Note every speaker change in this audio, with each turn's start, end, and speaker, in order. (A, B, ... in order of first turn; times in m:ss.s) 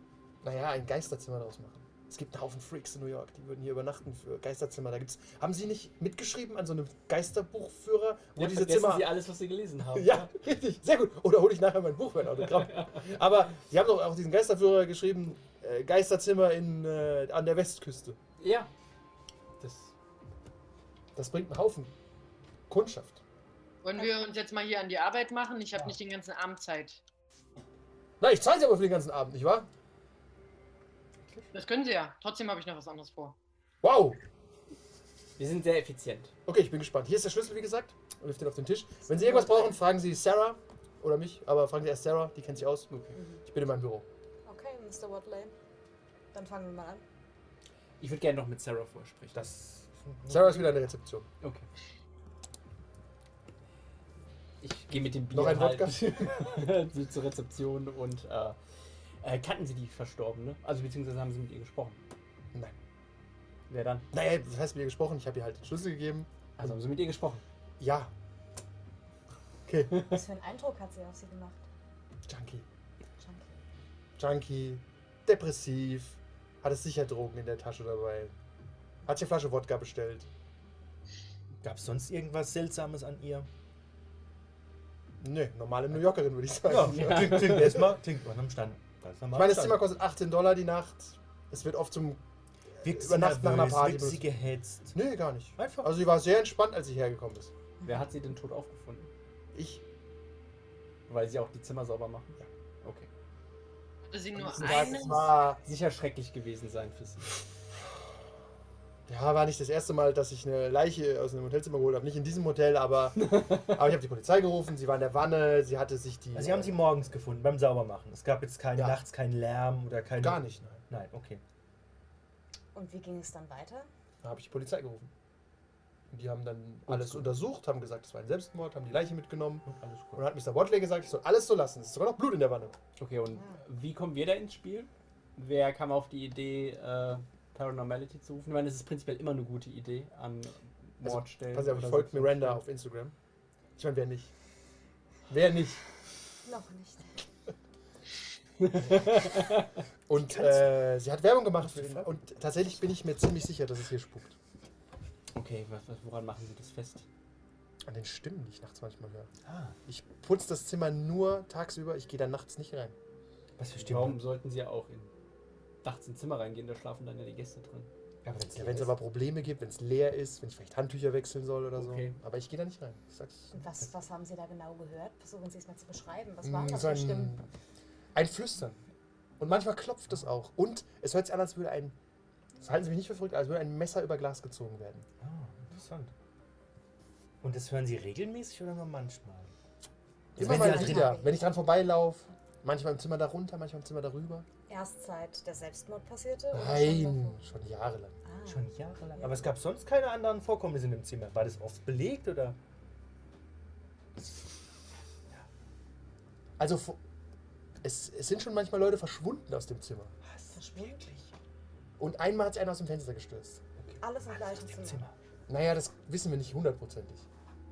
0:00.4-0:09.2 A
0:08.4-0:10.3 B
0:09.9-0:18.2 A
0:12.6-0:13.0 B
0:18.4-0:18.7 B
0:19.6-0:19.9 B
0:21.2-0:21.9 A
0:22.7-0:23.2 A
0:23.8-0:27.0 C
0:28.2-0:29.7 A
0:31.5-0:33.4 C
0:33.8-0:34.2 A
0:35.4-0:36.3 B
0:36.5-0:44.1 A
0:39.1-0:39.7 D
0:43.2-0:43.4 D
0:44.5-0:45.5 D
0:46.3-0:47.0 D
0:48.0-0:49.5 B
0:49.4-0:50.8 E
0:50.3-0:51.3 A
0:51.4-0:51.7 B
0:54.6-0:58.6 B
0:55.3-0:56.2 A
0:59.2-1:02.0 B
1:03.7-1:04.1 B
1:04.1-1:06.7 A
1:06.6-1:07.4 B
1:07.8-1:08.1 A
1:09.7-1:10.1 A
1:09.9-1:11.6 D
1:12.3-1:12.7 A
1:13.2-1:13.6 D
1:14.2-1:18.3 A
1:19.1-1:20.3 A
1:21.6-1:23.5 E
1:25.2-1:27.8 A
1:26.7-1:29.8 E
1:26.8-1:27.8 B
1:29.3-1:32.2 A
1:32.8-1:34.2 A
1:32.8-1:35.0 E
1:34.9-1:37.5 A
1:35.6-1:35.9 E
1:37.8-1:39.1 B
1:39.5-1:39.8 A
1:41.1-1:43.1 B
1:44.1-1:45.3 C
1:44.4-1:45.6 A
1:44.6-1:47.3 B
1:49.1-1:56.8 A
1:53.2-1:53.8 B
1:56.3-2:01.4 E
1:58.8-1:59.0 A
2:00.2-2:00.8 A
2:02.7-2:03.9 D
2:04.2-2:05.1 A
2:06.1-2:12.8 A
2:06.9-2:07.3 B
2:09.6-2:10.2 E
2:13.0-2:22.6 B
2:21.0-2:23.1 A
2:23.8-2:24.3 A
2:25.3-2:25.8 A
2:26.4-2:27.2 D
2:28.6-2:29.7 B
2:28.8-2:29.4 E
2:30.1-2:34.4 A
2:30.2-2:30.8 E
2:31.6-2:32.2 E
2:35.3-2:37.1 B
2:37.8-2:39.3 A
2:39.4-2:39.8 E
2:39.9-2:43.0 A
2:43.6-2:44.2 E
2:43.8-2:45.1 B
2:45.8-2:47.9 B
2:48.2-2:49.0 E
2:48.6-2:53.5 A
2:51.8-2:52.2 B
2:53.5-2:57.4 D
2:56.4-2:57.5 A
2:58.2-2:58.8 A
2:59.4-3:02.0 A
3:02.6-3:05.1 A
3:05.2-3:06.1 E
3:07.4-3:09.5 E
3:10.4-3:11.2 E
3:10.4-3:14.5 A
3:10.4-3:11.4 D
3:14.7-3:17.4 D
3:16.5-3:18.2 A
3:18.3-3:18.6 D
3:18.5-3:22.6 E
3:19.2-3:19.5 D
3:26.6-3:27.0 A
3:27.8-3:30.1 A
3:30.2-3:31.3 E
3:30.5-3:31.1 D
3:32.0-3:33.6 A
3:33.8-3:35.2 E
3:34.0-3:35.1 D
3:35.5-3:37.3 A